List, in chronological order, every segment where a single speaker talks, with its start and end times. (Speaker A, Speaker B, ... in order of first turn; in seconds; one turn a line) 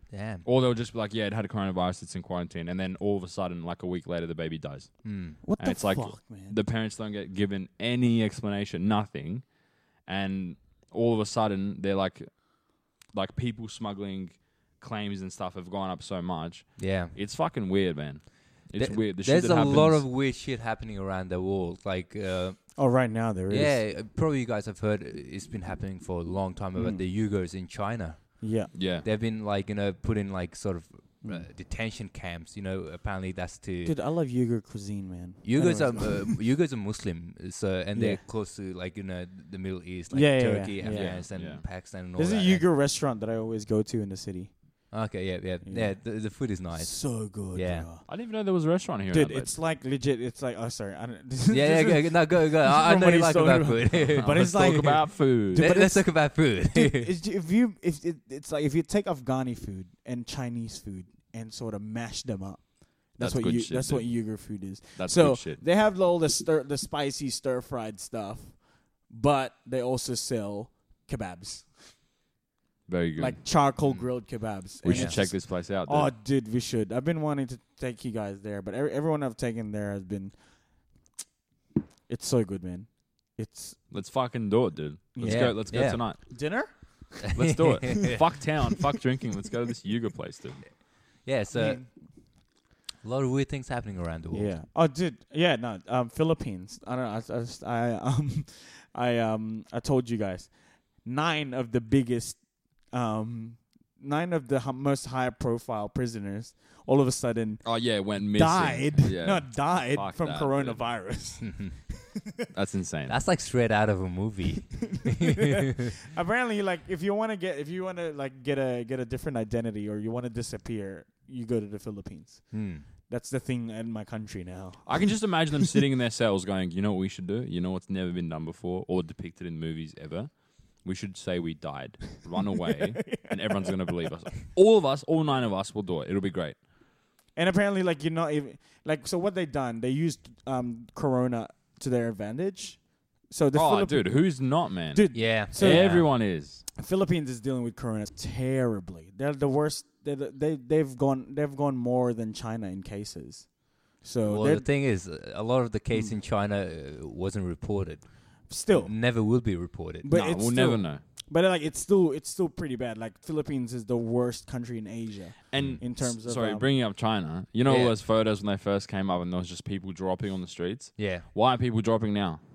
Speaker A: 0.1-0.5
Speaker B: 0.4-20.1
Speaker A: 5.0-5.4
Speaker C: 5.4-6.6
Speaker A: 16.8-17.1
Speaker A: 18.7-34.0
Speaker C: 22.8-23.8
Speaker C: 26.8-27.1
Speaker C: 28.4-28.7
Speaker B: 28.7-29.1
Speaker C: 31.2-31.5
Speaker C: 33.9-36.3
Speaker A: 35.4-42.7
Speaker C: 38.0-38.2
Speaker C: 40.1-41.6
Speaker B: 40.8-41.7
Speaker C: 42.1-44.6
Speaker A: 44.9-47.9
Speaker C: 45.6-48.1
Speaker B: 48.1-49.6
Speaker C: 49.1-72.0
Speaker A: 51.5-54.9
Speaker B: 54.0-55.7
Speaker A: 55.5-57.1
Speaker B: 63.2-65.6
Speaker B: 72.9-73.5
Speaker C: 73.2-80.6
Speaker A: 73.8-74.1
Speaker B: 74.8-76.1
Speaker A: 74.8-75.2
Speaker C: 82.1-83.8
Speaker B: 83.9-86.2
Speaker C: 85.2-87.3
Speaker A: 85.2-86.4
Speaker A: 87.2-88.2
Speaker B: 87.3-90.8
Speaker A: 91.2-92.4
Speaker C: 91.5-92.1
Speaker A: 93.0-94.5
Speaker C: 94.3-112.0
Speaker B: 107.6-111.0
Speaker B: 112.5-113.2
Speaker A: 113.1-115.5
Speaker C: 115.0-125.6
Speaker A: 122.5-122.9
Speaker B: 124.8-136.6
Speaker C: 133.0-133.7
Speaker C: 137.3-154.7
Speaker B: 143.5-146.6
Speaker A: 145.1-146.1
Speaker A: 154.2-160.1
Speaker C: 155.9-156.2
Speaker C: 158.5-166.7
Speaker B: 160.1-161.0
Speaker B: 165.5-172.4
Speaker A: 167.7-168.0
Speaker A: 171.0-171.3